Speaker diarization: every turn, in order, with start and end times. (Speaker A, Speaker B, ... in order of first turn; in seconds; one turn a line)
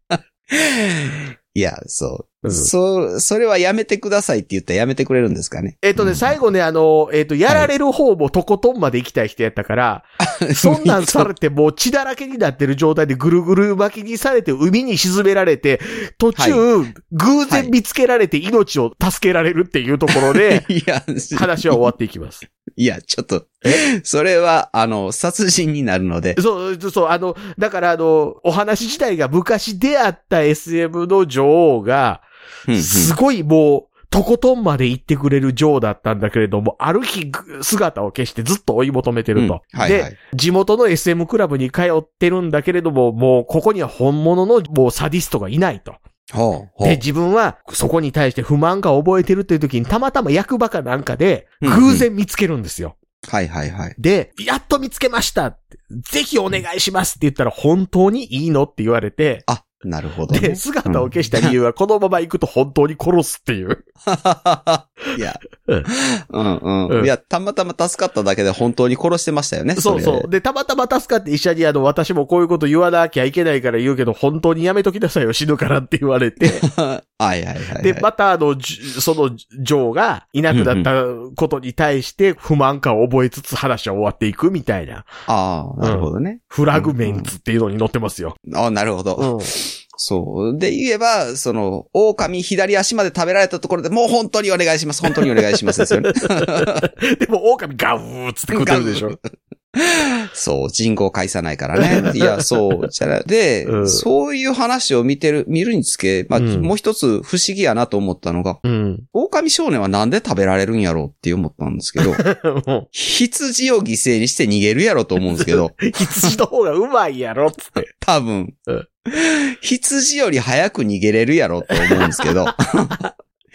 Speaker A: 0.1-6.3
Speaker B: 2.4-2.7
Speaker B: 5.8-20.7
Speaker A: 10.4-11.3
Speaker A: 16.4-16.6
Speaker A: 17.5-17.7
Speaker A: 20.1-21.8
Speaker B: 21.3-22.4
Speaker A: 22.8-26.4
Speaker B: 26.4-46.0
Speaker A: 32.7-33.1
Speaker A: 39.4-40.1
Speaker A: 46.3-47.0
Speaker B: 46.8-53.0
Speaker A: 51.6-52.1
Speaker A: 53.2-54.0
Speaker B: 54.0-59.5
Speaker A: 59.5-61.5
Speaker B: 60.3-63.9
Speaker A: 64.1-70.3
Speaker B: 69.8-76.7
Speaker A: 76.5-78.1
Speaker B: 77.8-85.1
Speaker A: 80.5-80.9
Speaker A: 85.3-87.3
Speaker B: 85.8-88.4
Speaker A: 88.5-96.8
Speaker B: 89.2-89.5
Speaker B: 95.1-99.2
Speaker A: 98.5-99.2
Speaker A: 99.8-108.6
Speaker B: 101.8-102.4
Speaker B: 103.7-104.0
Speaker B: 106.3-106.7
Speaker B: 108.6-109.1
Speaker A: 109.1-112.2
Speaker B: 112.0-112.9
Speaker A: 112.9-116.3
Speaker B: 115.4-117.9
Speaker A: 117.9-123.0
Speaker B: 121.9-122.5